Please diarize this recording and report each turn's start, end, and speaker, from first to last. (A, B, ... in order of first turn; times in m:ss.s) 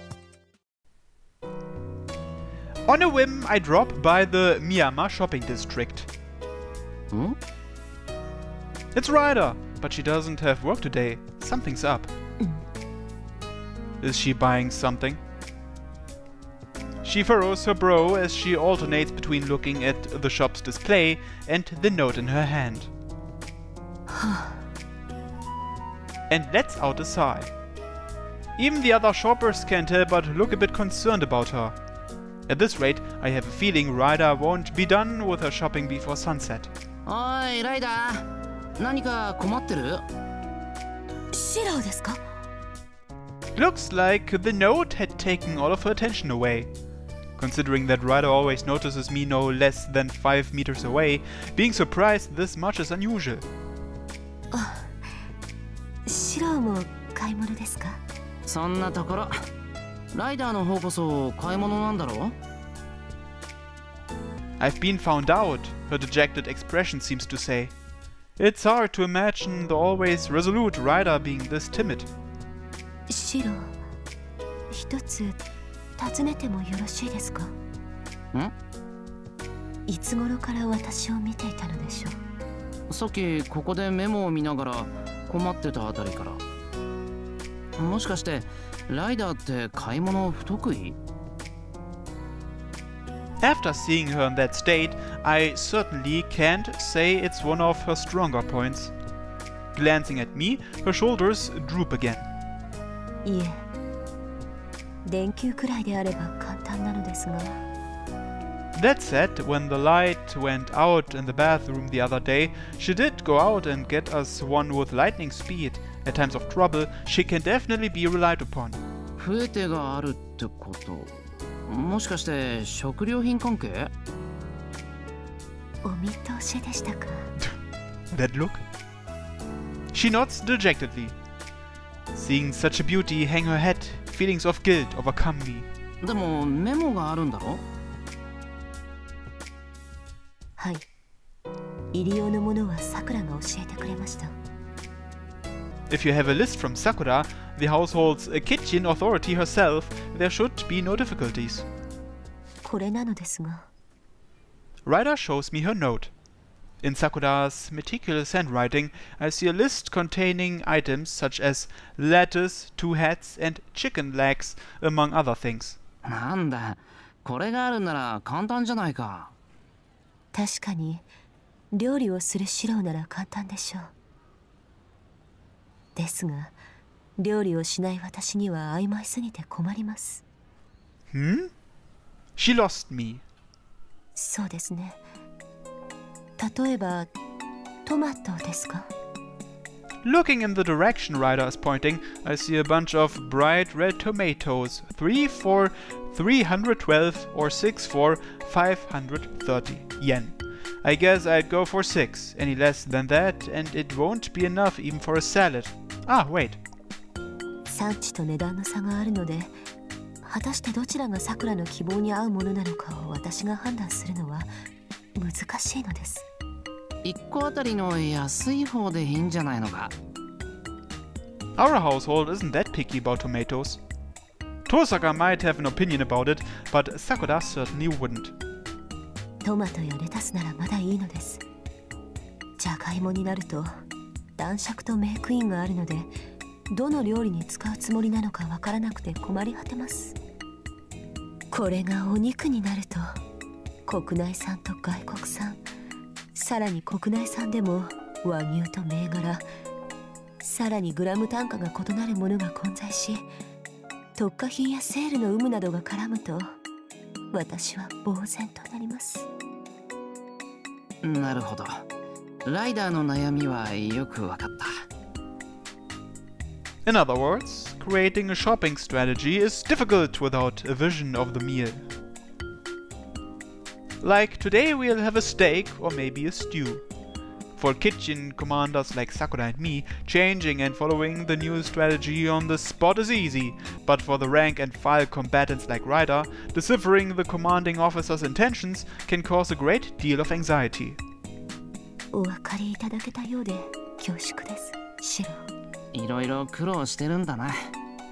0:02.9-0:06.1 A
0:07.1-0:07.4 B
0:08.9-0:12.1 A
0:14.0-0:15.2 A
0:17.0-0:22.9 A
0:24.1-0:24.6 C
0:26.3-0:27.5 A
0:28.6-0:31.8 A
0:32.5-0:36.7 A
0:37.0-0:38.3 B
0:38.8-0:40.0 B
0:41.3-0:42.2 C
0:43.6-0:46.7 A
0:47.4-0:53.4 A
0:54.5-0:55.0 C
0:56.0-0:58.0 C
0:58.4-0:59.3 B
1:00.1-1:02.4 B
1:04.6-1:07.7 A
1:08.4-1:12.1 A
1:13.1-1:13.8 C
1:14.7-1:15.4 C
1:16.0-1:17.5 C
1:19.9-1:22.2 C
1:22.9-1:26.4 B
1:27.8-1:31.0 B
1:33.4-1:38.9 A
1:39.7-1:42.3 A
1:43.2-1:43.6 C
1:45.0-1:47.6 C
1:48.7-1:58.8 A
1:59.2-2:03.9 B
2:05.8-2:07.3 C
2:08.1-2:08.6 A
2:09.9-2:11.2 A
2:12.1-2:15.7 A
2:16.0-2:17.6 B
2:20.6-2:20.8 C
2:21.9-2:24.3 C
2:25.9-2:31.6 A
2:32.6-2:33.7 C
2:34.8-2:36.1 A
2:36.8-2:45.8 A
2:46.0-2:49.3 B
2:50.3-2:51.0 C
2:51.7-2:53.9 C
2:55.9-2:56.6 C
2:57.2-3:00.2 C
3:01.1-3:01.5 A
3:02.4-3:03.2 A
3:04.2-3:05.0 C
3:06.4-3:07.1 C
3:07.8-3:08.9 C
3:10.0-3:26.6 A
3:27.7-3:29.5 C
3:30.2-3:34.5 C
3:35.1-3:36.2 C
3:37.0-3:39.9 B
3:41.6-3:43.8 A
3:44.7-3:48.4 A
3:49.4-3:51.4 C
3:52.6-3:53.8 C
3:54.4-3:56.1 C
3:56.7-4:00.2 C
4:01.5-4:03.2 C
4:03.8-4:05.6 C
4:06.3-4:09.4 C
4:10.4-4:13.3 C
4:14.2-4:16.5 C
4:17.3-4:19.3 C
4:21.0-4:21.8 B
4:22.4-4:24.7 B
4:26.8-4:31.8 A
4:34.0-4:36.8 A
4:37.6-4:51.0 A
4:52.1-4:55.5 C
4:55.9-4:57.7 B